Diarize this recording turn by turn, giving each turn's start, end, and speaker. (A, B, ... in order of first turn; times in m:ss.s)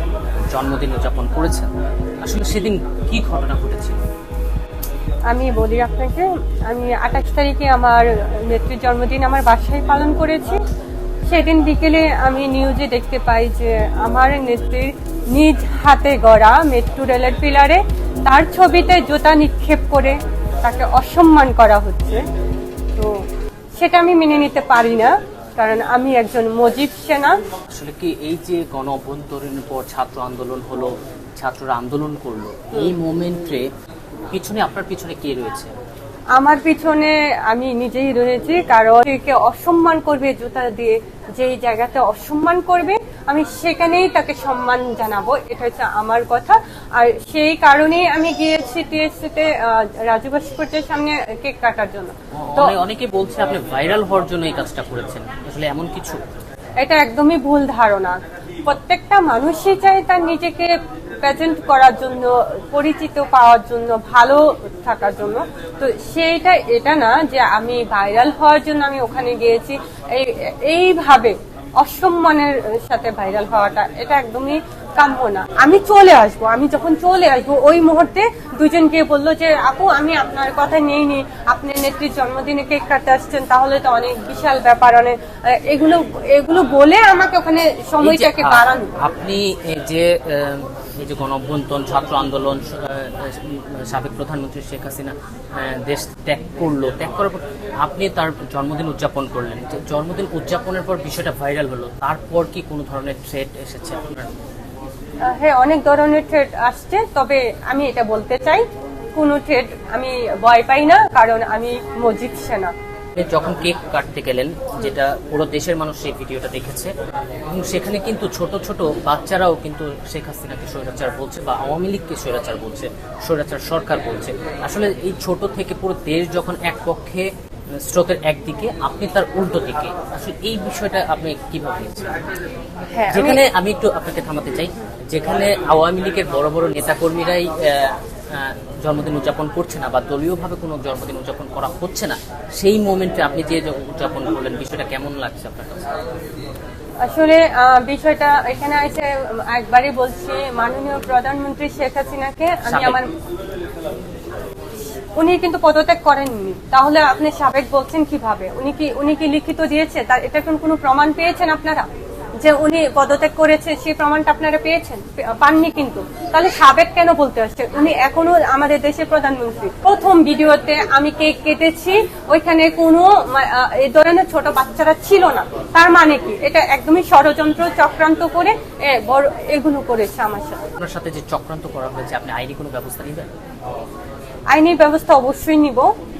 0:00.5-0:01.7 A
0:02.2-0:04.0 A
0:05.3-0:10.6 B
0:11.3-0:22.2 B
0:23.0-0:23.2 B
0:23.8-0:27.4 B
0:27.7-0:33.6 A
0:34.3-0:35.7 A
0:36.4-0:52.8 B
0:52.4-0:56.2 A
0:56.8-1:00.7 B
1:01.2-1:28.9 B
1:28.0-1:44.3 A
1:45.2-1:48.6 B
1:49.2-1:52.7 B
1:53.2-1:56.9 A
1:57.5-2:07.3 A
2:07.9-2:12.2 A
2:12.9-2:13.4 B
2:13.1-2:26.0 A
2:27.0-2:33.1 B
2:32.7-2:33.0 A
2:35.2-2:41.9 B
2:42.4-3:00.6 B
3:00.8-3:03.3 A
3:04.5-3:05.9 B